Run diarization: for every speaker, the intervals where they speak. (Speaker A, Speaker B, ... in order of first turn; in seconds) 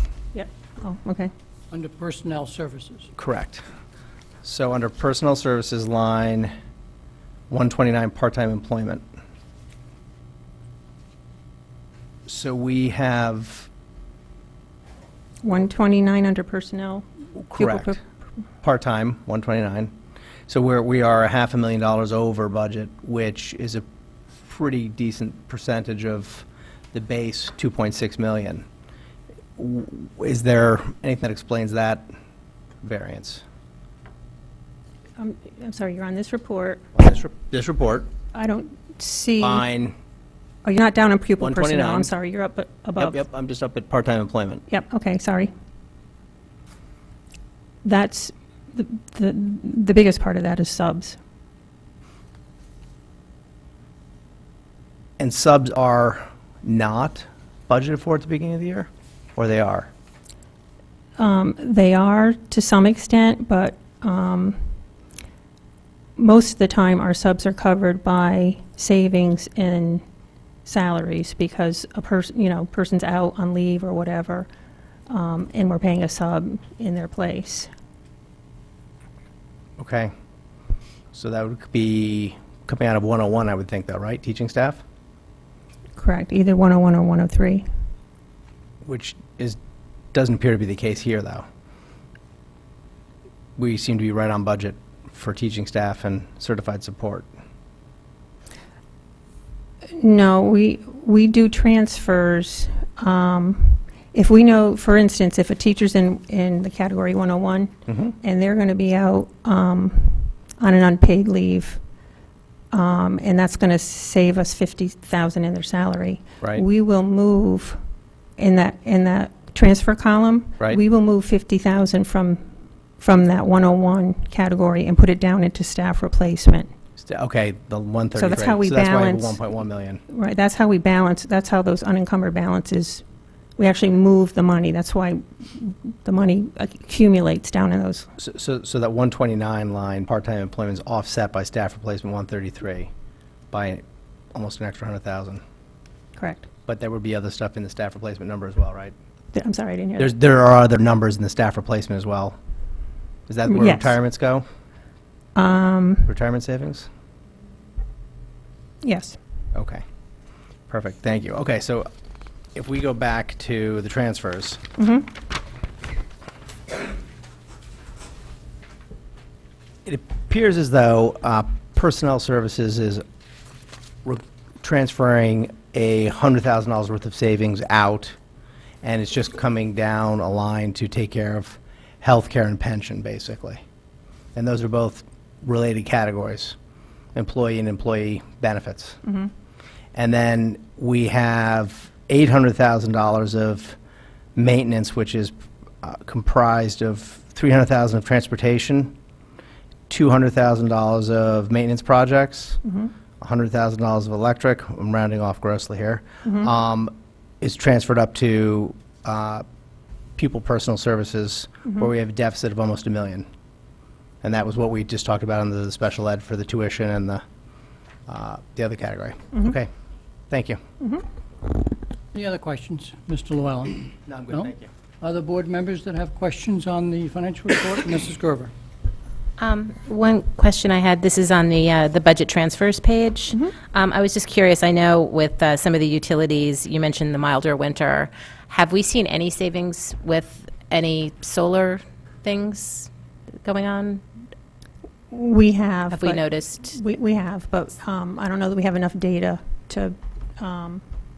Speaker A: 0.3-1.3, 15.4-18.0, 35.2-36.8, 38.3-39.7, 40.6-43.2, 44.7-45.5, 47.8-51.2, 61.2-64.7, 66.2-70.0, 70.7-74.5, 75.1-77.7, 86.0-87.6, 100.0-111.8, 112.7-117.8, 118.4-122.4, 123.0-126.7, 128.2-129.4, 130.1-133.0, 133.6-138.1, 146.2-146.5, 149.3-150.1, 153.4-154.0, 155.4-156.1, 158.8-159.2, 164.8-165.1, 245.1-250.8
Speaker B: 1.7-3.1, 222.1-228.5
Speaker C: 3.2-3.6, 4.4-6.5, 7.5-9.0, 12.3-13.7, 17.4-18.0, 18.6-19.9, 20.5-23.8, 24.4-28.6, 29.6-32.1, 32.8-33.4, 37.0-38.1, 39.4-39.9, 41.4-42.1, 43.0-44.6, 55.2-59.9, 79.8-80.1, 81.1-84.8, 88.8-89.6, 90.1-91.5, 93.6-97.3, 107.9-108.1, 127.0-130.0, 138.2-142.9, 143.5-143.8, 144.3-145.4, 146.7-148.9, 150.0-152.4, 153.3-154.4, 156.1-156.9, 159.5-159.8, 160.7-161.9, 162.6-164.6, 169.9-173.0, 174.1-178.2, 178.8-183.6, 184.3-186.6, 187.2-189.1, 189.9-193.8, 194.4-198.9, 199.9-202.6, 203.2-209.4, 210.2-213.3, 214.2-217.2, 218.1-219.7, 220.3-220.6, 224.1-224.7
Speaker D: 229.4-242.9, 243.4-244.0, 245.9-246.6